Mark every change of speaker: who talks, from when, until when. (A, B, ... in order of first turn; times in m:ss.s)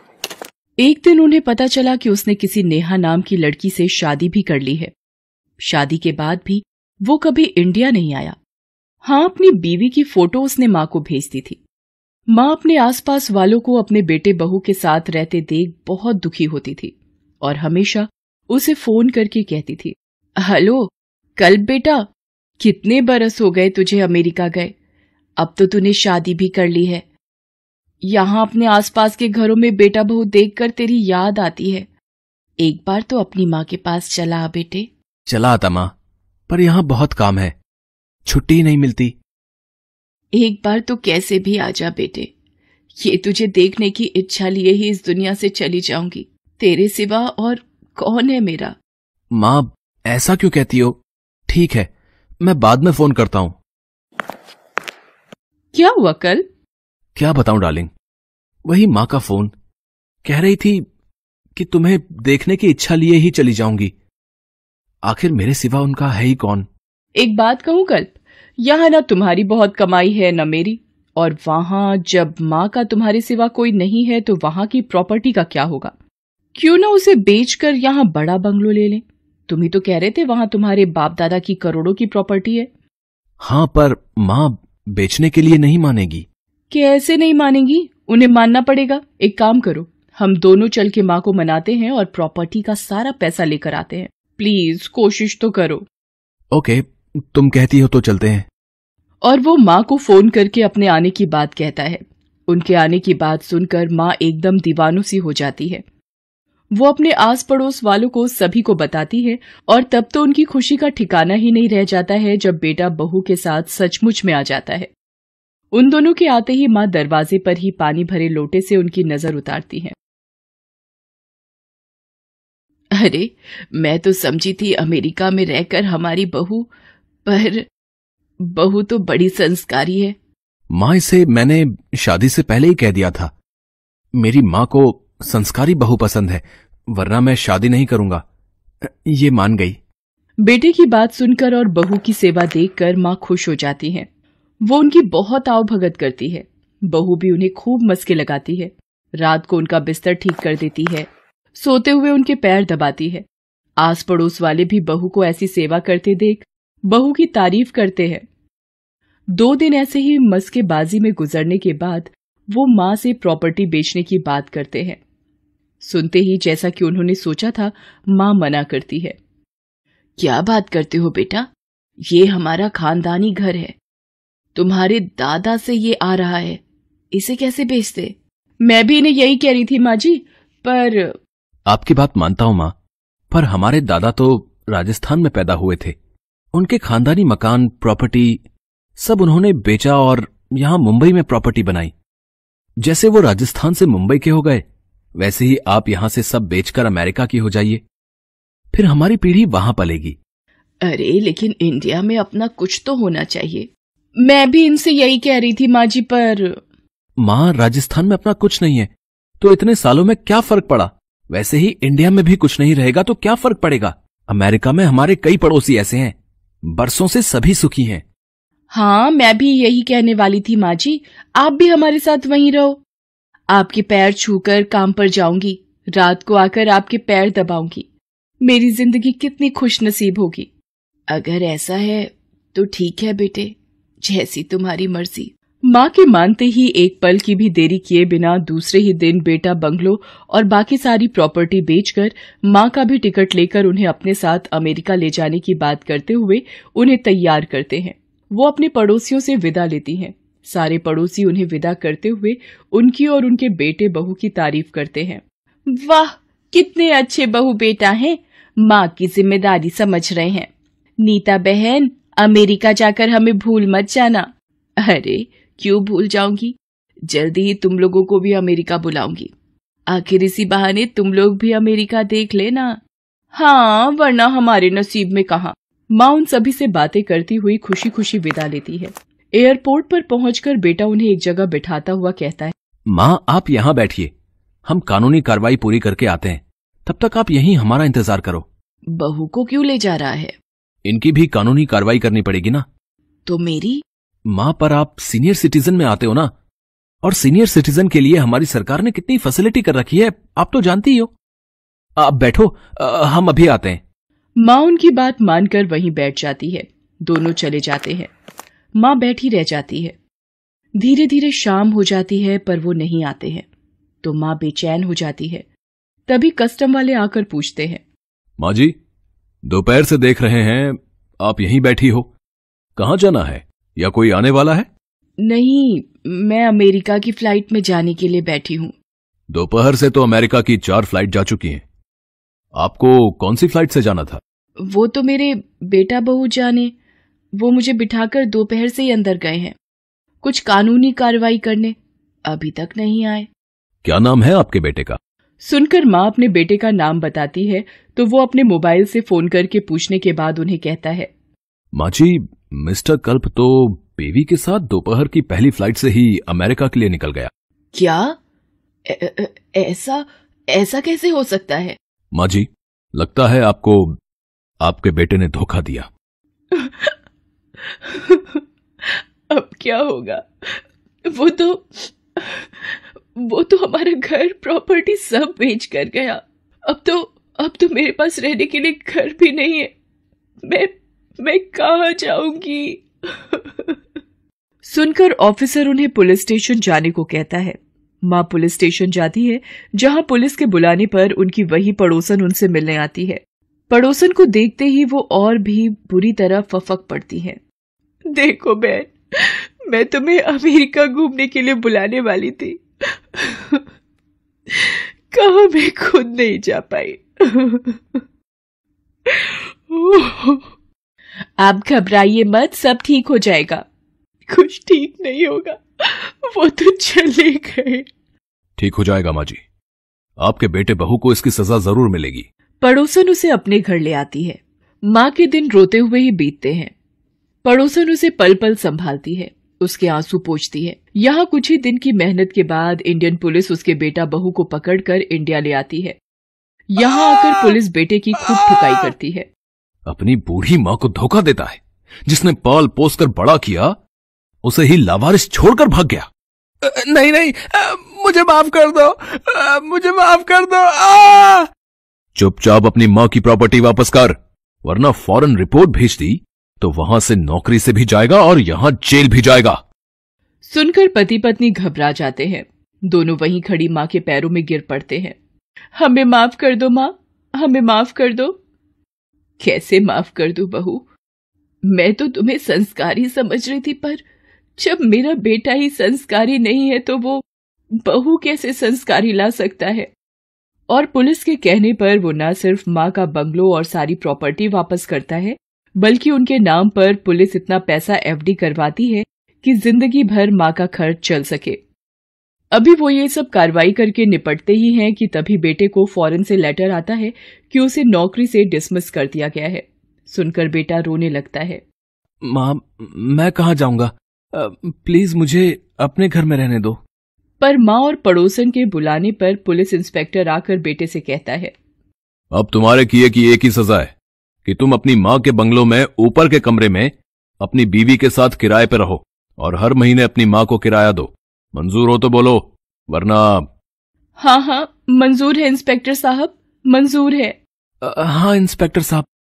0:00.8-0:04.9 A
0:05.6-0:08.4 A
0:09.0-0:11.6 A
0:12.3-0:22.0 A
0:22.6-0:24.7 A
0:25.4-0:27.0 A
0:28.0-0:31.9 A
0:32.6-0:34.9 A
0:35.3-0:35.9 B
0:36.5-0:37.5 B
0:38.2-0:39.2 B
0:40.3-0:42.3 A
0:43.0-0:48.7 A
0:49.3-0:51.9 B
0:52.4-0:53.6 B
0:55.7-0:56.4 A
0:57.2-0:57.9 B
0:58.6-0:59.5 B
1:00.2-1:00.8 B
1:01.5-1:03.9 B
1:05.1-1:06.7 B
1:07.2-1:15.9 A
1:16.5-1:22.7 A
1:23.4-1:26.2 B
1:26.7-1:35.8 A
1:36.5-1:38.5 B
1:39.2-1:45.8 A
1:46.7-1:54.9 A
1:55.7-1:59.9 A
2:02.9-2:06.7 A
2:07.2-2:07.7 A
2:08.5-2:10.2 A
2:10.7-2:13.3 B
2:14.2-2:18.2 B
2:18.8-2:19.8 B
2:20.4-2:24.1 A
2:24.7-2:33.2 A
2:33.8-2:38.2 A
2:39.4-2:45.0 A
2:45.8-2:49.2 A
2:50.2-2:51.5 A
2:52.1-2:53.8 A
2:54.5-2:56.6 A
2:57.1-3:01.2 A
3:01.7-3:02.7 B
3:03.3-3:05.9 B
3:06.5-3:08.4 B
3:09.0-3:11.9 B
3:12.8-3:14.6 B
3:15.2-3:17.8 B
3:18.7-3:20.2 B
3:20.8-3:23.7 A
3:24.2-3:26.6 A
3:27.2-3:36.2 B
3:36.7-3:38.0 B
3:38.7-3:42.8 A
3:43.5-3:47.9 A
3:48.4-3:50.5 A
3:51.1-4:20.5 A
4:21.0-4:24.3 A
4:24.8-4:29.3 A
4:29.9-4:32.8 A
4:33.3-4:42.5 A
4:42.9-4:44.1 B
4:44.6-4:48.5 B
4:48.9-4:50.4 A
4:50.8-4:52.6 B
4:53.2-4:53.8 A
4:54.3-4:56.3 B
4:57.0-5:01.1 B
5:02.0-5:03.8 B
5:04.4-5:08.1 A
5:08.8-5:10.0 A
5:10.8-5:13.5 A
5:14.0-5:15.5 A
5:16.1-5:17.8 A
5:18.4-5:18.7 B
5:19.4-5:22.1 B
5:22.8-5:24.7 B
5:25.2-5:28.7 A
5:29.3-5:31.6 B
5:32.6-5:34.2 B
5:34.6-5:36.7 A
5:37.4-5:39.6 A
5:40.2-5:43.3 A
5:43.8-5:45.0 B
5:45.4-5:51.1 A
5:51.7-5:57.3 B
5:57.7-5:58.1 A
5:58.9-6:01.8 A
6:02.1-6:03.9 B
6:04.6-6:05.9 B
6:06.5-6:06.9 A
6:07.6-6:19.7 A
6:20.4-6:23.8 A
6:24.6-6:37.4 A
6:38.1-6:42.6 A
6:43.1-6:43.6 A
6:44.5-6:47.8 A
6:49.1-6:50.5 A
6:51.4-6:53.6 A
6:54.3-6:57.8 A
6:58.6-6:59.4 B
7:00.2-7:02.2 B
7:02.6-7:06.7 A
7:07.4-7:16.0 A
7:16.7-7:19.3 A
7:19.9-7:23.7 B
7:24.4-7:26.1 B
7:26.6-7:31.5 B
7:32.1-7:39.6 B
7:40.4-7:45.2 A
7:45.8-7:48.4 A
7:49.4-7:50.8 A
7:51.6-7:54.0 A
7:54.6-7:57.2 A
7:57.8-7:59.9 A
8:00.7-8:11.6 A
8:12.5-8:21.6 A
8:22.2-8:26.8 B
8:27.4-8:31.5 A
8:32.3-8:33.9 B
8:34.4-8:43.4 B
8:44.2-8:47.4 A
8:47.8-8:49.1 B